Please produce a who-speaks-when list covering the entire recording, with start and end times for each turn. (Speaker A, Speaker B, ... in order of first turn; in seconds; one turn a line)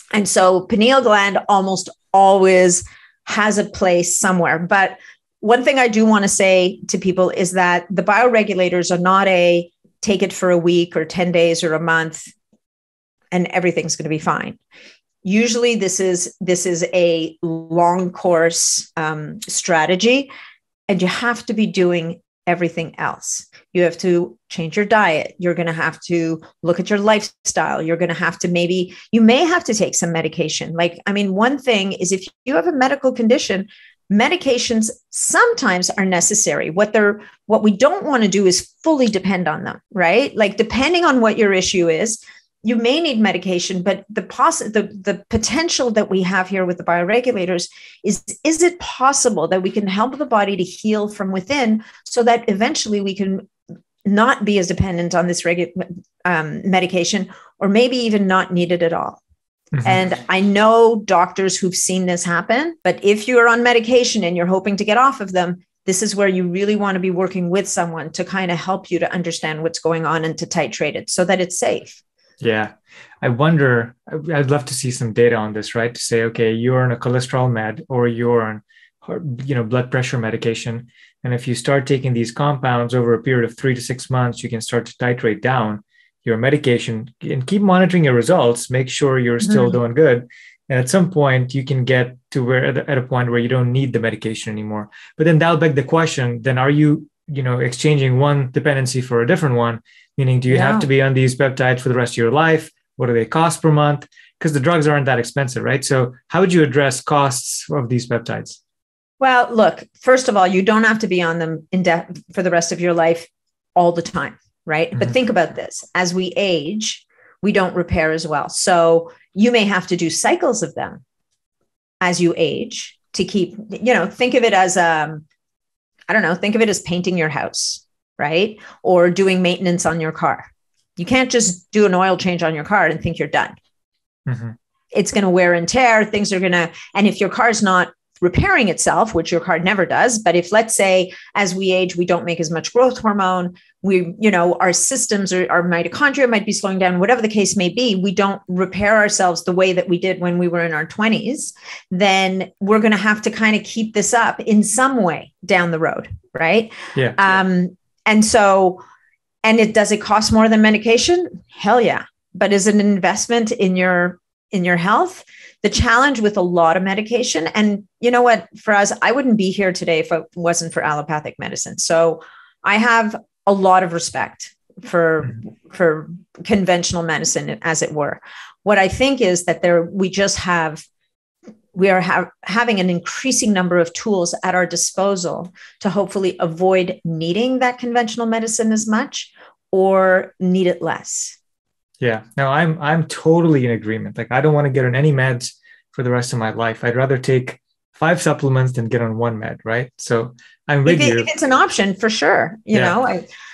Speaker A: 0.1-12.3
Speaker A: 13.3-14.6
Speaker A: 15.2-20.3
Speaker A: 20.9-53.5
Speaker A: 54.0-59.2
Speaker B: 59.7-60.0
Speaker A: 59.8-72.0
Speaker B: 72.4-108.6
Speaker A: 89.5-89.7
Speaker A: 100.5-100.9
Speaker A: 109.2-121.0
Speaker A: 122.0-125.2
Speaker A: 126.1-130.4
Speaker A: 131.0-133.5
Speaker B: 134.2-134.5
Speaker A: 134.9-158.8
Speaker A: 159.4-180.8
Speaker A: 181.7-191.4
Speaker B: 192.0-201.3
Speaker A: 200.8-203.2